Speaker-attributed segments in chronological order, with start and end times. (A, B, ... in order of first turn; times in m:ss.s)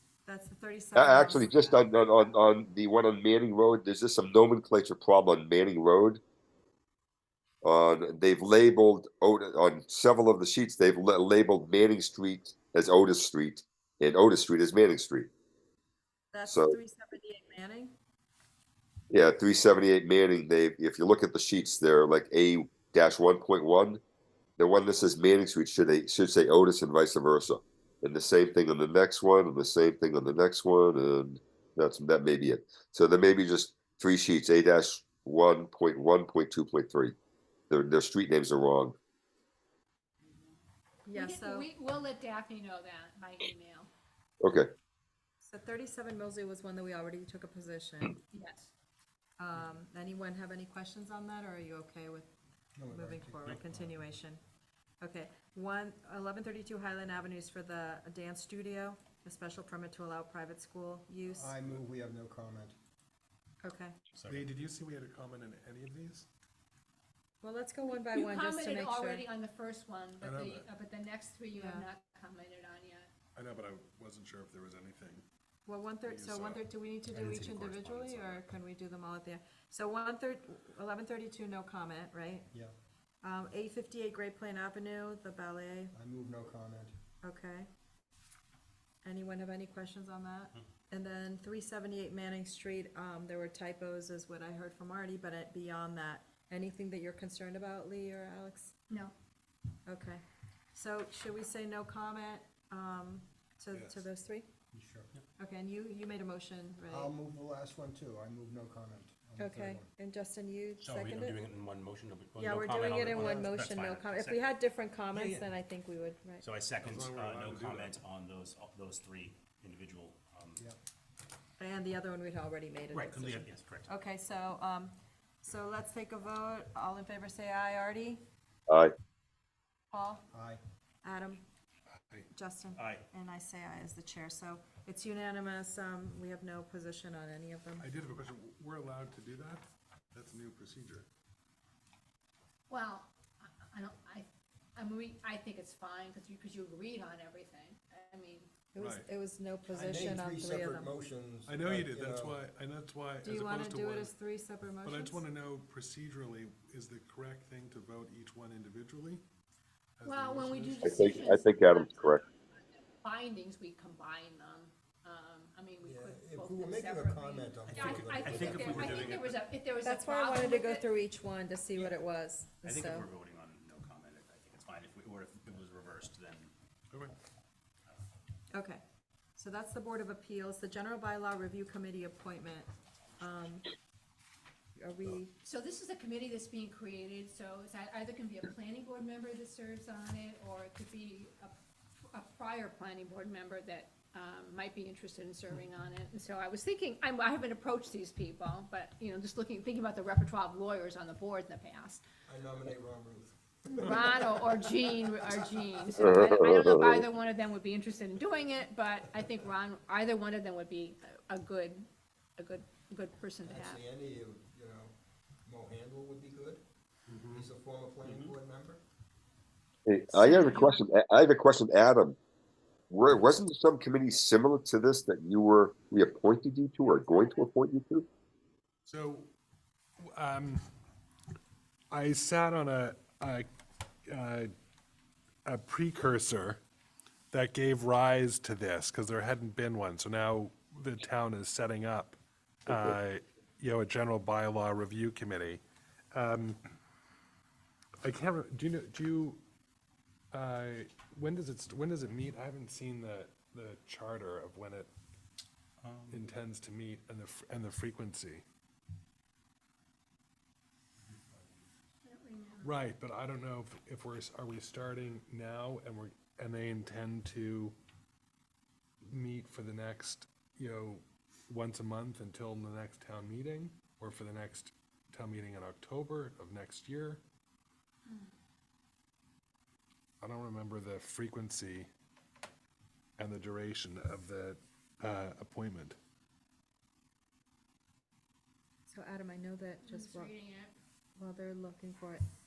0:00.2-0:02.1 A
0:01.0-0:06.2 B
0:07.6-0:15.3 B
0:16.3-0:17.9 A
0:16.4-0:16.8 B
0:19.1-0:24.0 B
0:24.6-0:37.1 B
0:37.7-0:38.9 B
0:41.0-0:41.7 A
0:41.1-0:43.9 C
0:44.4-0:44.7 B
0:45.4-0:48.2 A
0:48.3-0:48.7 C
0:49.4-0:52.3 A
0:52.8-0:54.0 D
0:52.9-0:54.4 A
0:55.0-1:01.4 A
1:01.2-1:02.7 D
1:01.5-1:01.8 E
1:03.6-1:03.9 A
1:04.1-1:04.4 F
1:04.2-1:06.3 E
1:07.4-1:09.2 A
1:07.8-1:13.1 C
1:10.2-1:10.7 E
1:11.5-1:11.9 A
1:13.4-1:15.2 E
1:15.6-1:22.5 A
1:16.0-1:18.4 E
1:23.2-1:25.9 A
1:25.9-1:26.9 D
1:27.2-1:27.7 A
1:29.0-1:38.7 A
1:39.9-1:44.5 A
1:43.7-1:44.1 E
1:44.7-1:45.1 D
1:45.4-1:47.0 A
1:46.8-1:49.9 D
1:49.4-1:51.4 A
1:50.8-1:54.5 F
1:52.4-1:56.4 A
1:53.1-1:53.4 D
1:55.1-1:55.5 F
1:56.4-2:00.6 F
1:56.8-1:58.0 E
2:01.6-2:08.2 A
2:02.9-2:03.9 F
2:09.9-2:10.2 A
2:10.3-2:10.6 D
2:11.0-2:11.4 A
2:12.3-2:17.9 A
2:12.8-2:13.1 F
2:17.8-2:21.0 E
2:22.7-2:28.5 C
2:28.7-2:30.9 A
2:28.8-2:29.1 E
2:29.7-2:32.4 D
2:31.5-2:34.1 E
2:33.2-2:35.2 A
2:34.8-2:39.2 E
2:40.0-2:41.2 E
2:40.0-2:50.9 C
2:40.8-2:42.2 B
2:45.8-2:49.1 D
2:47.7-2:49.4 F
2:49.8-2:53.1 A
2:52.6-2:56.5 F
2:58.5-2:58.8 A
2:59.4-3:03.7 A
3:04.8-3:05.3 A
3:05.4-3:22.0 C
3:22.3-3:24.6 D
3:23.8-3:33.8 C
3:26.0-3:27.0 B
3:33.4-3:34.9 D
3:35.4-3:36.6 D
3:37.1-3:37.4 E
3:37.3-3:38.8 D
3:38.0-3:38.3 F
3:39.8-3:42.2 B
3:40.1-3:40.8 C
3:42.9-3:48.1 B
3:48.8-3:49.3 E
3:50.1-3:50.6 E
3:51.9-3:53.5 E
3:54.1-3:54.5 E
3:55.4-3:56.6 E
3:57.3-4:05.6 E
4:06.1-4:06.6 E
4:08.0-4:09.4 E
4:10.3-4:14.9 E
4:15.8-4:16.2 F
4:16.1-4:18.4 E
4:22.0-4:22.8 C
4:22.6-4:27.7 E
4:29.0-4:37.2 E
4:40.2-4:41.9 E
4:43.2-4:46.0 E
4:48.8-4:50.3 A
4:49.8-4:50.8 C
4:51.2-4:52.2 A